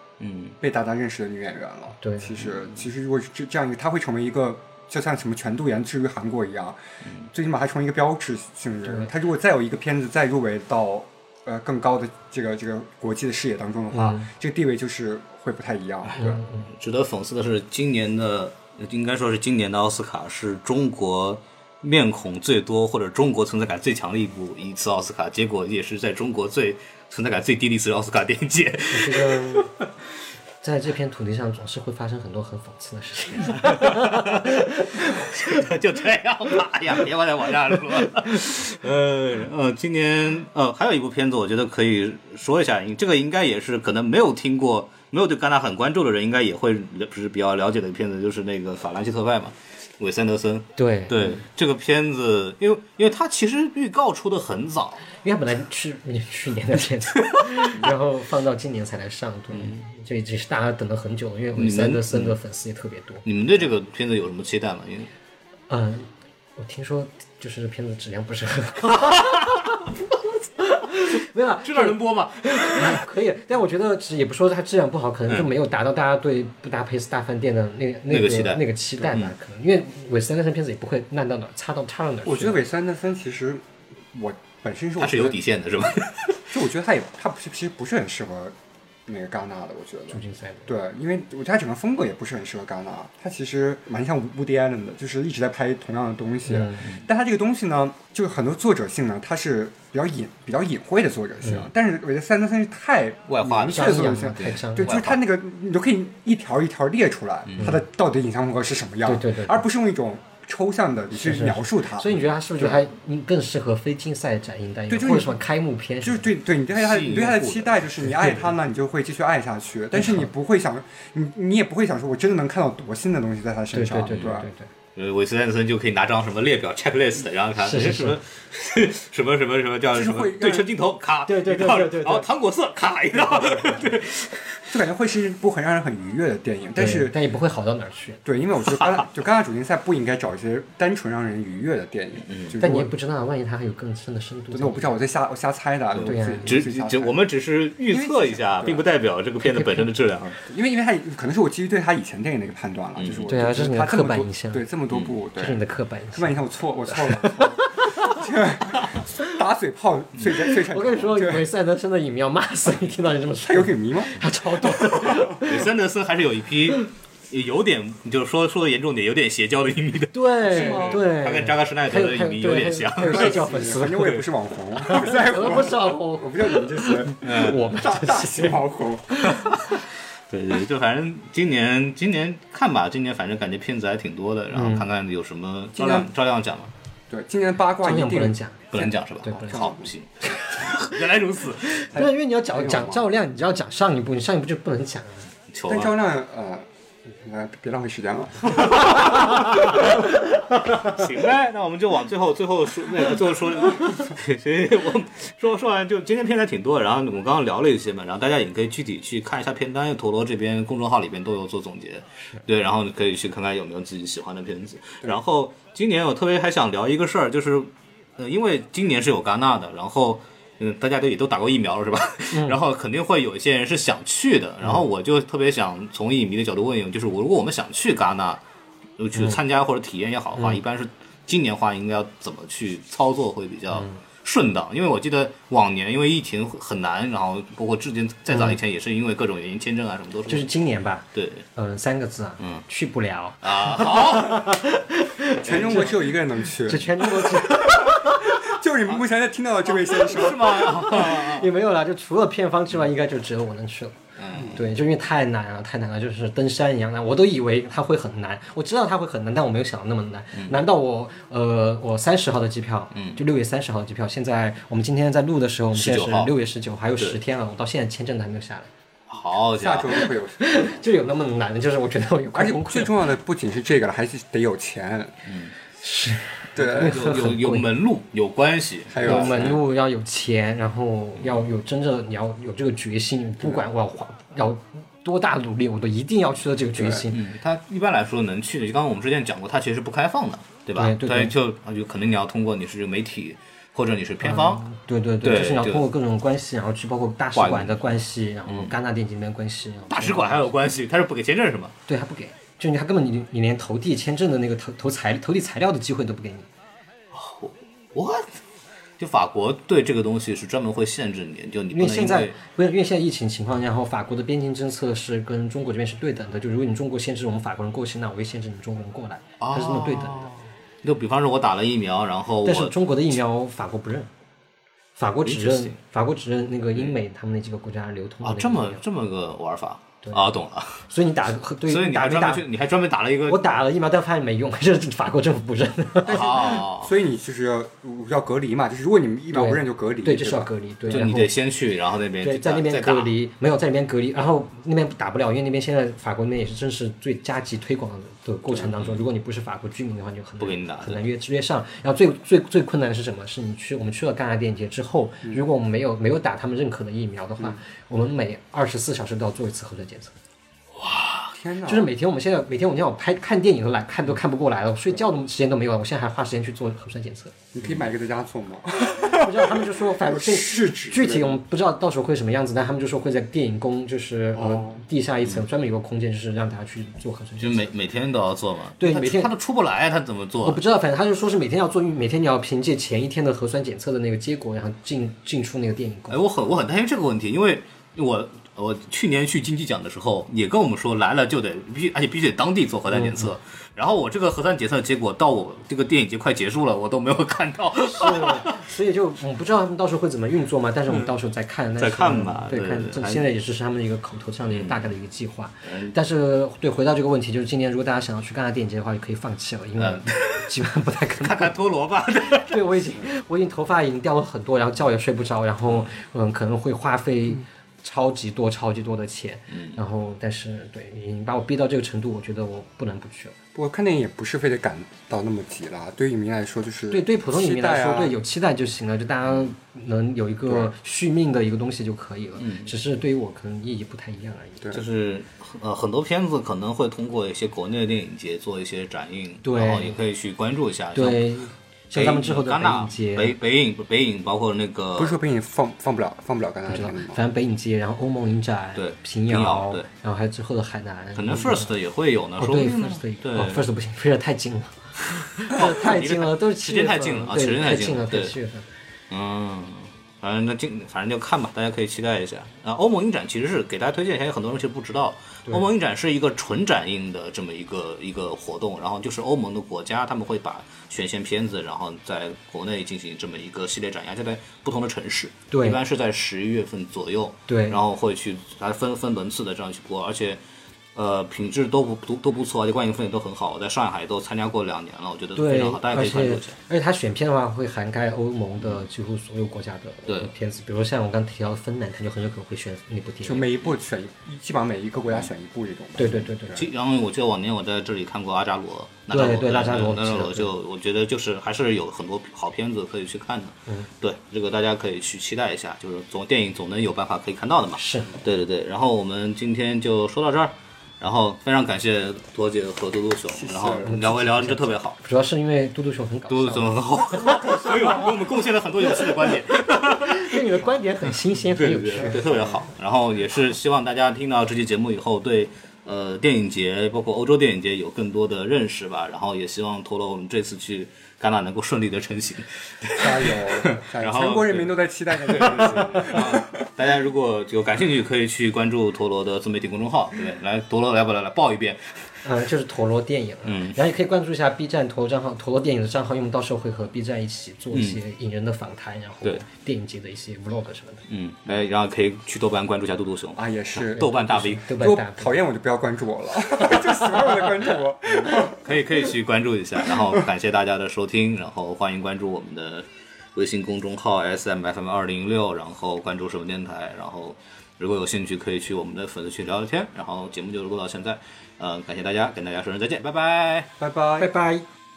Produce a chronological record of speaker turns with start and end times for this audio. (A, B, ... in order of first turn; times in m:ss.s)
0:00.2-0:00.6 A
0:00.6-0:06.8 B
0:02.0-0:02.4 C
0:07.3-0:16.4 B
0:08.8-0:09.1 C
0:13.9-0:14.3 C
0:16.2-0:16.7 C
0:16.7-0:29.7 A
0:28.9-0:29.7 C
0:30.6-0:35.6 C
0:33.4-0:55.0 A
0:38.0-0:38.3 C
0:50.8-0:51.2 C
0:55.2-1:03.2 C
0:57.3-0:57.8 A
0:59.5-0:59.8 A
1:01.6-1:02.4 A
1:03.2-1:05.1 A
1:05.7-1:09.8 C
1:09.0-1:09.4 A
1:10.6-1:22.7 C
1:11.6-1:13.0 A
1:18.1-1:19.3 A
1:22.2-1:25.4 B
1:25.0-1:26.5 A
1:26.5-1:28.5 B
1:29.1-1:52.8 B
1:30.1-1:30.7 C
1:36.4-1:37.0 C
1:43.3-1:45.2 A
1:43.7-1:45.0 C
1:47.5-1:47.8 A
1:49.0-1:49.6 C
1:51.1-1:56.3 C
1:54.9-1:55.4 B
1:56.0-2:04.5 B
1:56.7-1:58.4 A
2:03.7-2:04.7 C
2:04.1-2:04.4 A
2:05.0-2:14.7 A
2:07.6-2:08.2 C
2:09.9-2:10.7 B
2:11.3-2:12.3 C
2:14.7-2:17.2 B
2:16.8-2:18.2 C
2:18.2-2:22.9 B
2:22.3-2:22.6 A
2:22.6-2:25.0 C
2:24.5-2:27.2 B
2:25.9-2:30.4 A
2:26.0-2:26.5 C
2:27.9-2:28.8 B
2:29.4-2:29.9 C
2:30.5-2:35.6 B
2:33.0-2:33.4 A
2:33.3-2:34.7 C
2:35.4-2:36.4 C
2:36.1-2:41.4 B
2:36.9-2:38.2 C
2:40.4-2:45.7 C
2:43.4-2:45.4 B
2:45.2-2:54.2 A
2:50.1-2:54.1 C
2:50.5-2:51.0 B
2:53.0-2:59.2 B
2:54.8-2:58.6 C
2:57.2-2:57.6 A
2:59.2-3:06.7 A
3:04.5-3:04.9 C
3:05.8-3:06.1 B
3:07.1-3:09.9 B
3:07.8-3:08.6 C
3:08.7-3:11.9 A
3:09.2-3:09.7 C
3:11.7-3:15.3 C
3:11.9-3:13.0 B
3:15.5-3:15.9 A
3:15.7-3:19.9 B
3:18.7-3:19.8 A
3:18.9-3:19.5 C
3:20.7-3:21.0 C
3:20.8-3:48.4 A
3:42.3-3:42.6 C
3:49.0-4:00.5 A
3:53.7-3:54.0 C
3:58.3-3:58.6 C
4:00.3-4:05.9 C
4:01.1-4:01.4 A
4:02.4-4:02.6 A
4:03.4-4:04.6 A
4:05.4-4:10.9 B
4:05.4-4:06.1 A
4:06.6-4:08.3 C
4:09.7-4:11.5 A
4:10.6-4:14.0 C
4:14.2-4:14.6 A
4:14.3-4:14.6 B
4:14.5-4:28.7 C
4:22.9-4:23.2 A
4:25.7-4:26.3 A
4:29.1-4:30.0 A
4:29.6-4:30.8 B
4:30.4-4:32.9 C
4:32.3-4:35.2 B
4:35.2-4:35.5 A
4:35.8-4:37.7 C
4:36.6-4:37.0 B
4:36.7-4:39.6 A
4:38.9-4:39.6 B
4:39.0-4:47.2 C
4:46.8-4:47.0 B
4:47.1-4:54.6 A
4:50.8-4:51.3 C
4:54.2-5:00.5 C
4:55.2-4:55.8 A
4:57.3-4:57.8 A
4:58.5-4:58.7 A
4:59.9-5:01.7 A
5:01.9-5:06.5 C
5:07.1-5:08.3 A
5:09.0-5:12.4 A
5:11.7-5:20.3 C
5:19.4-5:23.2 A
5:22.4-5:24.1 C
5:25.0-5:28.8 C
5:25.2-5:25.8 A
5:28.2-5:30.8 A
5:30.0-5:30.3 C
5:30.9-5:32.4 C
5:31.7-5:33.6 A
5:33.3-5:36.2 C
5:36.0-5:40.5 B
5:36.1-5:36.9 A
5:39.3-5:41.3 C
5:40.9-5:43.1 A
5:42.2-6:00.1 C
5:48.8-5:49.0 A
5:50.4-5:51.0 A
6:00.7-6:01.3 A
6:01.3-6:01.9 B
6:01.6-6:07.4 C
6:07.5-6:11.4 B
6:09.0-6:17.7 C
6:14.3-6:14.8 B
6:17.4-6:20.6 A
6:18.8-6:19.3 C
6:20.4-6:26.2 C
6:26.1-6:38.6 A
6:32.9-6:33.3 C
6:37.8-6:51.5 C
6:41.8-6:43.3 A
6:44.5-6:44.9 A
6:45.7-6:45.9 A
6:49.8-6:50.5 A
6:51.2-6:52.8 A
6:52.3-7:03.3 C
6:55.6-6:55.9 A
6:59.5-6:59.8 A
7:03.5-7:08.2 B
7:06.9-7:14.6 C
7:09.2-7:09.5 A
7:12.4-7:12.7 A
7:14.7-7:21.3 A
7:19.4-7:19.9 C
7:20.9-7:23.4 C
7:21.9-7:25.2 A
7:25.0-7:27.2 B
7:26.7-7:31.8 C
7:28.8-7:29.9 A
7:31.2-7:33.6 A
7:32.4-7:38.7 C
7:35.4-7:38.3 A
7:39.1-8:00.4 A
7:55.5-7:55.8 C
7:57.5-7:57.8 C
8:00.9-8:06.6 A
8:05.3-8:13.5 C
8:10.1-8:10.3 A
8:13.2-8:16.6 B
8:16.0-8:16.6 C
8:16.5-8:35.0 A
8:19.1-8:20.5 C
8:27.8-8:28.2 C
8:33.3-8:33.9 B
8:33.8-8:38.1 C
8:36.3-9:01.9 A
8:39.0-8:39.3 C
8:40.0-8:42.2 C
8:42.1-8:42.6 B
8:53.0-8:56.6 B
9:02.2-9:11.0 C
9:03.4-9:03.8 A
9:07.7-9:08.0 A
9:11.1-9:14.6 A
9:13.4-9:18.8 B
9:14.4-9:15.4 C
9:18.5-9:33.7 A
9:19.9-9:20.2 B
9:33.8-9:34.3 B
9:34.2-9:34.6 C